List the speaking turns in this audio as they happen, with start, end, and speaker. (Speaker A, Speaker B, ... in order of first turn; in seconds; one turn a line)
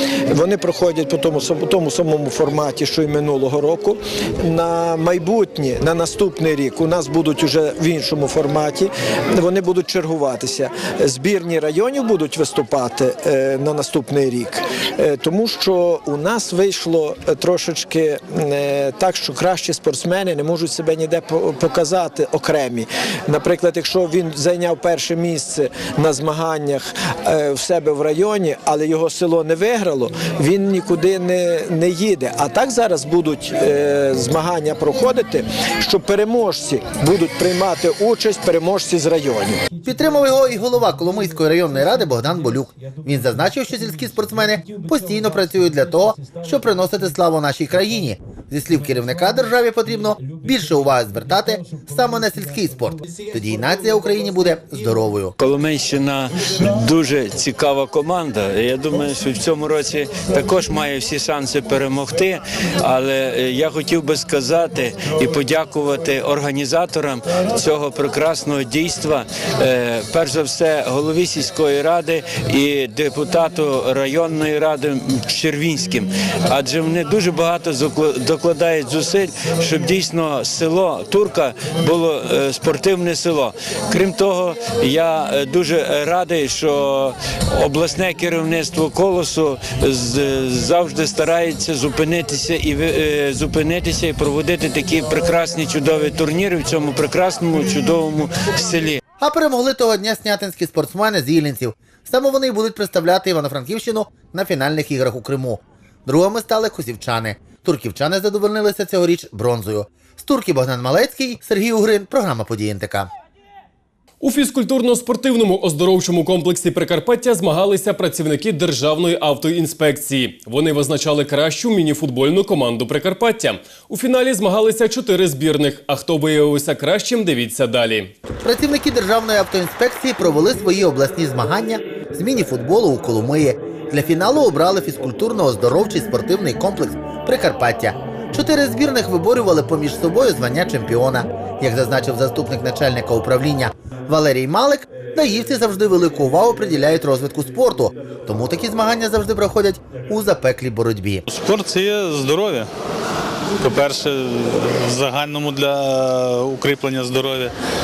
Speaker A: 0.3-39.6
Speaker B: 39.8-55.3
Speaker C: 55.4-99.0
Speaker B: 99.2-113.1
Speaker D: 114.2-128.1
Speaker B: 128.4-151.2
Speaker E: 151.3-152.7
Speaker E: 153.6-157.5